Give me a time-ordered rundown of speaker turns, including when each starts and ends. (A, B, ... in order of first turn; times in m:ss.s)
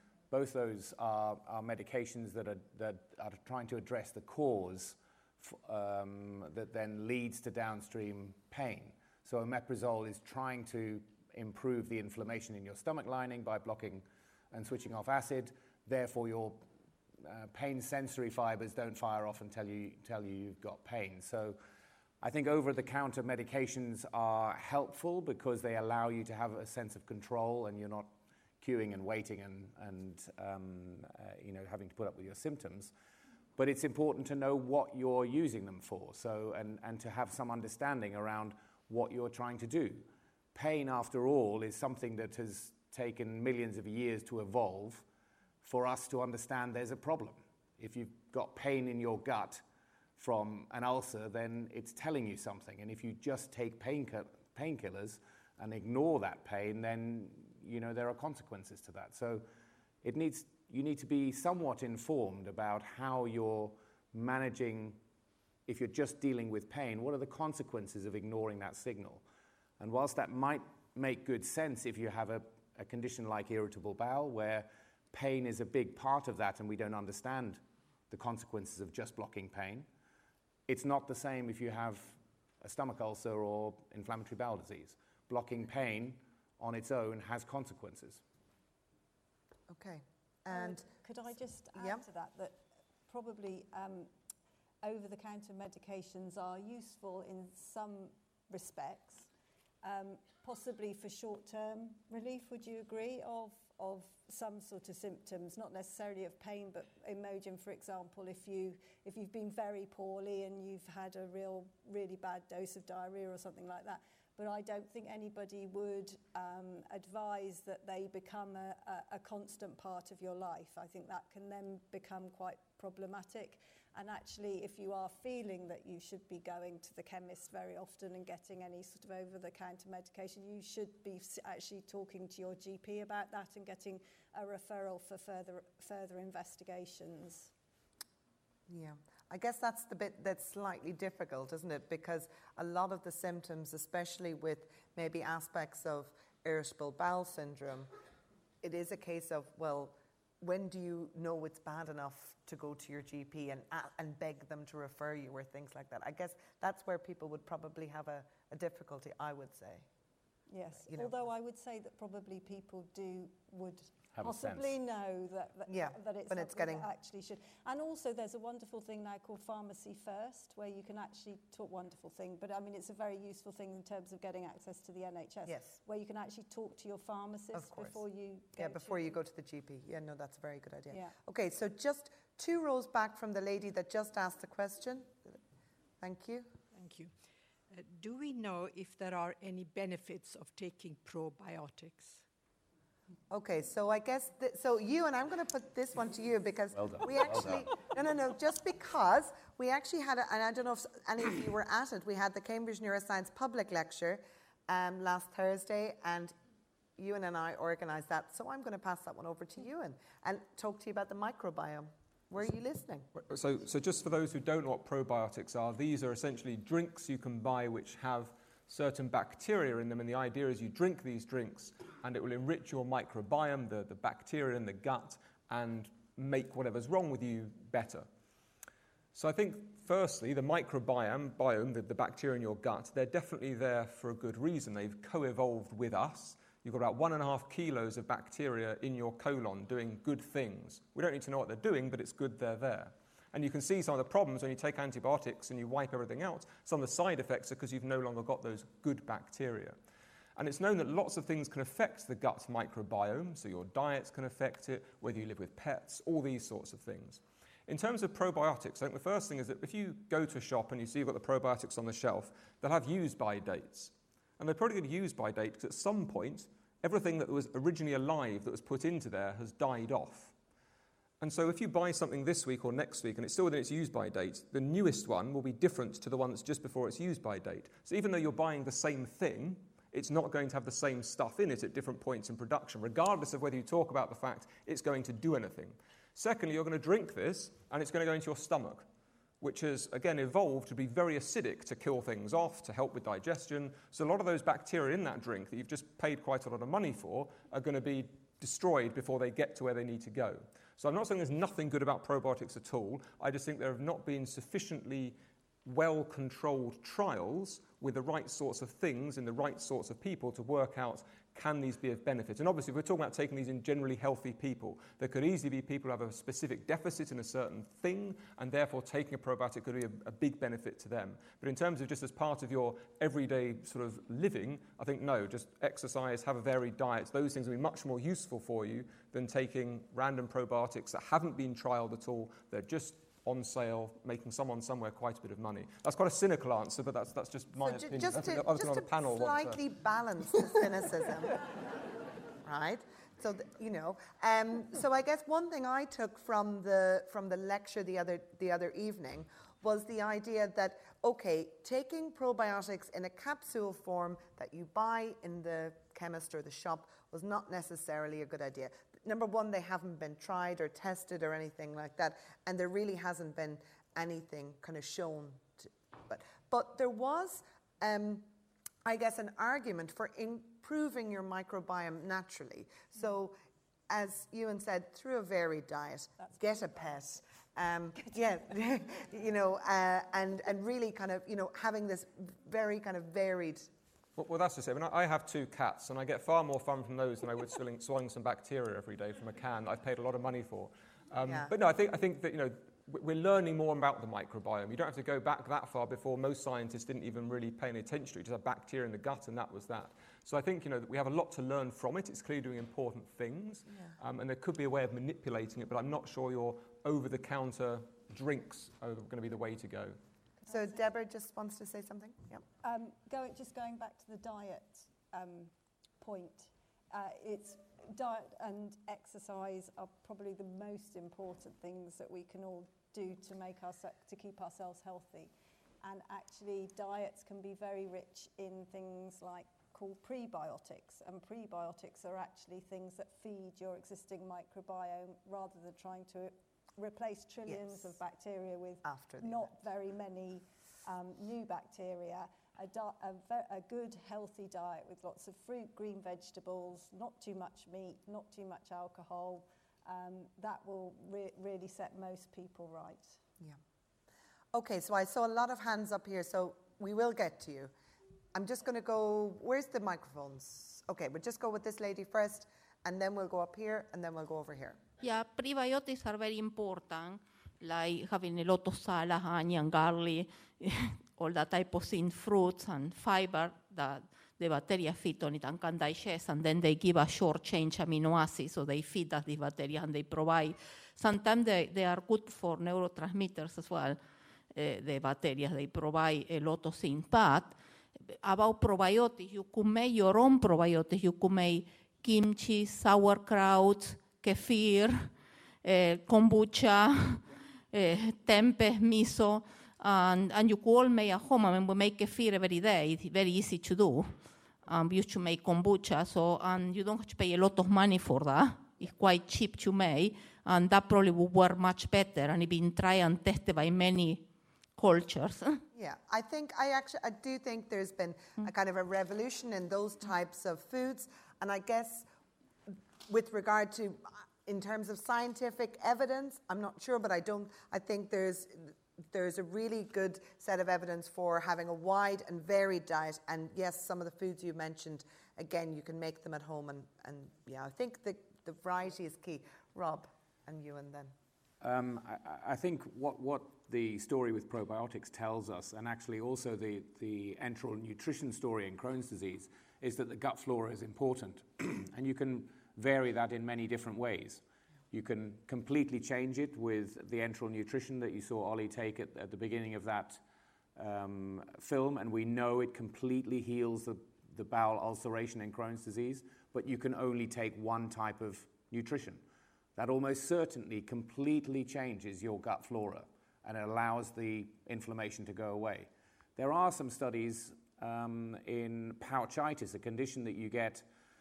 0:00.3-0:16.6 A
0:17.2-0:21.6 A
0:22.2-0:32.9 A
0:33.6-0:45.0 A
0:45.6-0:49.6 A
0:50.2-0:59.4 A
1:00.0-1:05.0 A
1:05.6-1:09.2 A
1:09.8-1:19.9 A
1:20.7-1:28.2 A
1:29.7-1:31.0 B
1:30.5-1:34.1 C
1:31.7-1:32.0 B
1:34.8-1:39.3 C
1:39.8-2:17.5 C
2:18.7-2:27.9 B
2:28.6-2:39.8 B
2:40.5-2:59.2 C
2:40.8-2:41.2 B
2:44.1-2:44.8 A
2:45.7-2:46.9 B
2:55.4-2:55.8 B
2:57.5-2:58.0 B
2:58.5-3:05.4 B
3:00.9-3:01.2 C
3:06.0-3:06.5 B
3:06.7-3:07.1 D
3:07.7-3:12.2 D
3:13.3-3:26.3 B
3:16.7-3:17.7 A
3:27.0-3:33.1 B
3:33.1-3:48.1 E
3:49.1-4:09.8 E
4:10.4-4:30.3 E
4:31.2-4:48.8 E
4:49.4-5:39.6 E
5:37.6-5:41.4 B
5:42.4-6:08.3 B
6:08.8-6:13.4 B
6:13.9-6:23.7 B
6:16.2-6:17.1 C
6:18.0-6:18.3 C
6:24.2-6:50.0 E
6:31.2-6:31.5 B
6:43.7-6:43.9 B
6:50.4-6:50.9 C
6:50.5-6:52.4 B
6:52.6-7:33.2 C
7:17.5-7:17.9 B
7:18.8-7:19.5 B
7:34.5-7:37.7 B
7:38.3-7:44.8 B
7:45.0-8:04.0 F
8:04.5-8:34.2 F
8:34.8-8:35.6 F
8:35.7-8:42.0 B
8:42.7-9:01.1 B
9:01.6-9:20.2 A
9:20.8-9:29.2 A
9:29.8-9:40.8 A